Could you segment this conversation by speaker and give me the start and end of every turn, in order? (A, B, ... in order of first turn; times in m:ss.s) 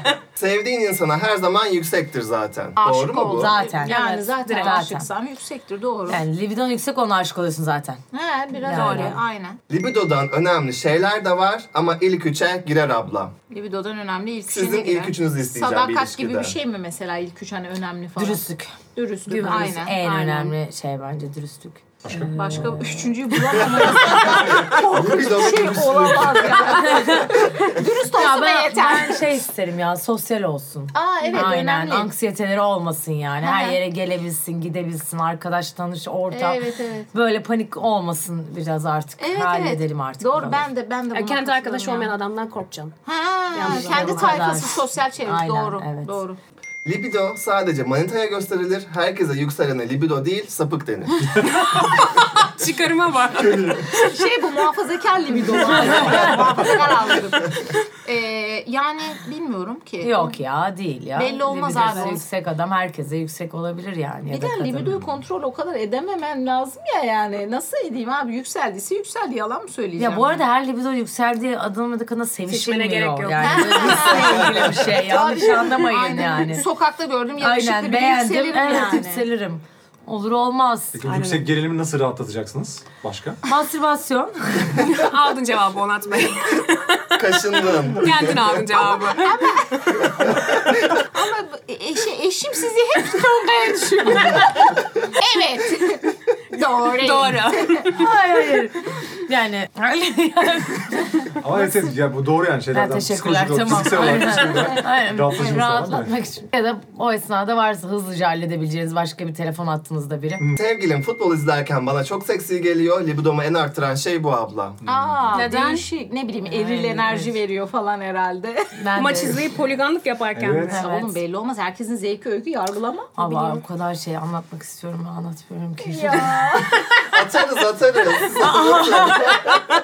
0:00.4-0:03.6 A
0:02.8-0:06.2 B
0:03.3-0:05.1 C
0:04.4-0:04.8 D
0:06.1-0:08.0 C
0:08.1-0:09.6 B
0:08.6-0:09.2 C
0:08.7-0:09.2 D
0:09.7-0:13.4 A
0:13.5-0:20.6 B
0:14.5-0:16.6 A
0:18.2-0:23.3 C
0:22.1-0:22.4 E
0:22.3-0:29.3 B
0:24.5-0:26.8 A
0:26.8-0:36.6 C
0:30.9-0:32.1 B
0:33.4-0:33.8 B
0:36.3-0:37.1 B
0:37.1-0:40.7 C
0:39.2-0:42.1 B
0:41.1-0:43.0 D
0:43.1-0:46.4 B
0:43.5-0:44.5 D
0:43.6-0:46.2 C
0:46.8-0:51.4 A
0:51.4-0:54.1 D
0:53.4-0:53.8 E
0:53.9-1:00.4 B
0:55.3-0:56.7 C
1:00.0-1:05.0 C
1:01.2-1:02.2 B
1:04.3-1:10.4 B
1:10.0-1:16.7 C
1:12.5-1:14.3 D
1:13.4-1:19.3 B
1:17.4-1:21.0 C
1:20.9-1:23.4 E
1:21.0-1:21.5 D
1:23.4-1:24.9 C
1:24.8-1:27.4 D
1:27.2-1:28.6 A
1:28.0-1:30.1 D
1:28.9-1:30.1 B
1:30.2-1:30.5 A
1:31.0-1:38.0 B
1:37.0-1:38.1 D
1:37.9-1:41.2 C
1:41.4-1:46.1 E
1:42.7-1:50.4 C
1:50.6-1:54.8 A
1:54.8-1:55.2 E
1:54.9-1:58.8 B
1:55.3-1:55.8 D
1:55.3-1:55.8 C
1:56.5-1:57.4 C
1:58.8-1:59.5 C
1:59.0-2:00.8 D
2:00.4-2:00.8 E
2:00.6-2:01.2 C
2:00.7-2:03.2 B
2:03.2-2:06.6 C
2:03.2-2:03.6 D
2:05.8-2:06.8 B
2:07.1-2:09.6 A
2:08.4-2:09.4 C